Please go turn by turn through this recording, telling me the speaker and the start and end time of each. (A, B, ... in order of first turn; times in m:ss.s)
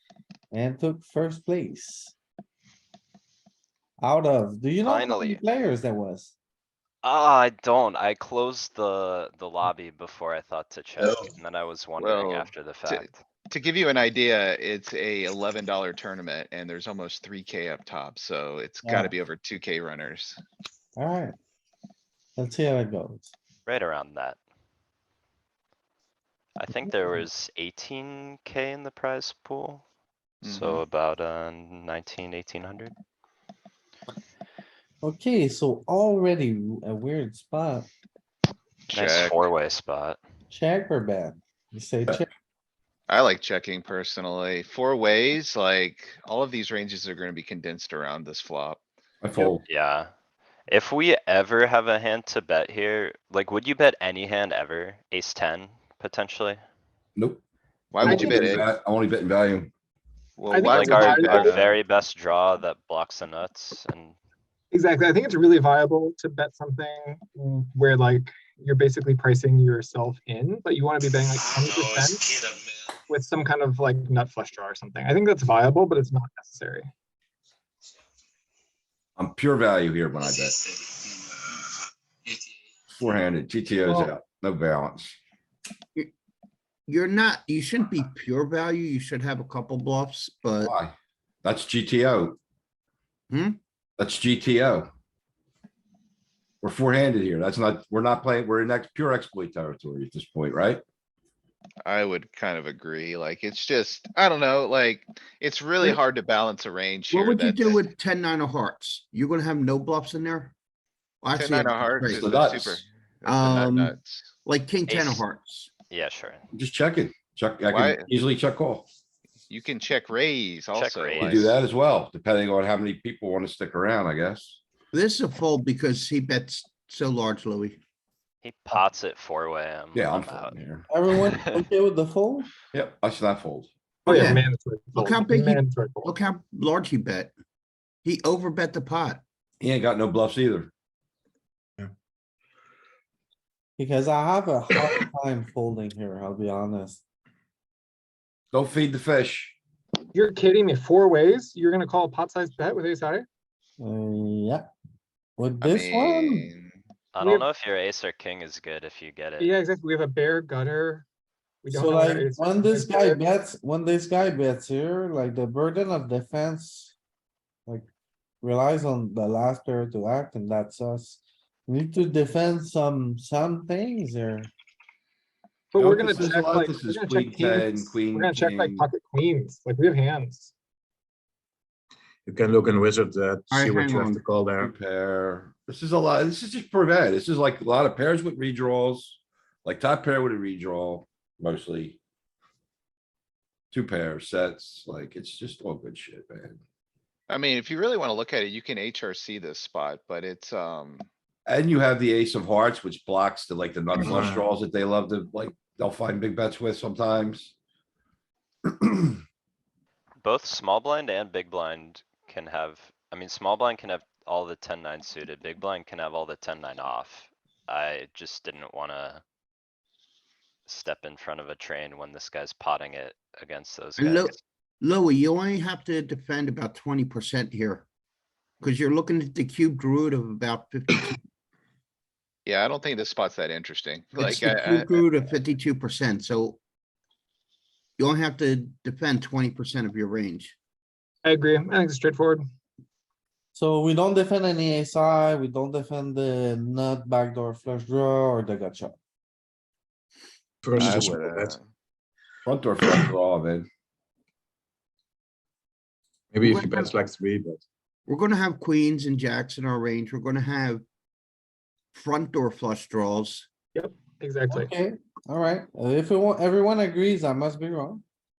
0:00.5-0:02.1 A
0:04.0-0:06.3 A
0:04.8-0:05.4 B
0:07.0-0:13.2 B
0:12.0-0:20.4 C
0:18.8-0:19.1 A
0:21.0-0:21.3 A
0:22.4-0:23.3 A
0:23.6-0:24.4 B
0:26.6-0:29.8 B
0:30.4-0:30.8 C
0:30.4-0:32.9 B
0:35.0-0:37.9 A
0:38.9-0:39.4 C
0:38.9-0:40.2 B
0:40.5-0:42.3 A
0:43.1-0:48.8 C
0:49.2-0:49.6 D
0:49.6-0:50.1 B
0:50.7-0:56.6 B
0:57.2-0:57.4 D
0:57.9-0:58.7 C
0:58.0-0:59.7 D
0:58.0-0:58.6 E
1:00.4-1:01.7 C
1:00.5-1:01.6 E
1:00.6-1:04.2 B
1:04.7-1:12.3 E
1:13.1-1:16.9 E
1:19.2-1:20.6 D
1:22.9-1:25.2 D
1:23.8-1:24.1 E
1:26.9-1:30.7 F
1:30.6-1:32.4 D
1:33.3-1:33.6 F
1:34.0-1:34.9 D
1:36.6-1:40.8 D
1:41.8-1:47.9 C
1:47.1-1:50.5 F
1:51.2-1:52.2 F
1:51.3-1:54.3 C
1:52.1-1:52.8 D
1:53.2-1:55.7 F
1:54.9-1:55.2 B
1:55.9-1:56.4 B
1:56.5-1:58.9 D
1:57.7-1:58.1 C
1:59.5-2:01.5 C
2:00.7-2:01.6 B
2:01.2-2:04.6 D
2:04.9-2:07.8 F
2:08.4-2:10.6 B
2:09.9-2:10.8 D
2:10.9-2:12.5 A
2:11.1-2:11.6 B
2:12.7-2:13.7 D
2:14.0-2:16.2 E
2:14.1-2:17.3 F
2:18.0-2:19.2 F
2:19.6-2:20.7 D
2:23.8-2:27.0 A
2:28.5-2:29.6 D
2:30.1-2:33.2 E
2:33.8-2:34.6 A
2:35.4-2:36.5 A
2:35.6-2:36.8 C
2:37.1-2:39.5 B
2:37.2-2:37.5 E
2:39.4-2:41.0 E
2:41.6-2:43.2 E
2:41.7-2:46.9 A
2:48.4-2:54.5 A
2:55.7-3:00.5 E
2:55.8-2:58.9 D
3:02.2-3:04.7 G
3:03.5-3:04.2 F
3:04.6-3:12.0 D
3:13.7-3:16.6 D
3:17.3-3:21.1 C
3:21.4-3:27.5 D
3:23.9-3:24.5 G
3:28.8-3:29.2 D
3:30.2-3:39.2 B
3:40.7-3:44.4 B
3:44.0-3:47.9 F
3:48.6-3:51.2 F
3:52.4-3:55.2 C
3:54.2-3:56.6 F
3:58.0-4:00.6 F
4:01.2-4:02.4 E
4:03.5-4:08.9 A
4:10.6-4:11.5 G
4:10.8-4:11.6 C
4:12.4-4:13.7 D
4:16.3-4:17.6 G
4:16.4-4:16.9 E
4:18.1-4:20.8 F
4:21.9-4:23.5 F
4:23.7-4:24.7 E
4:24.5-4:28.0 A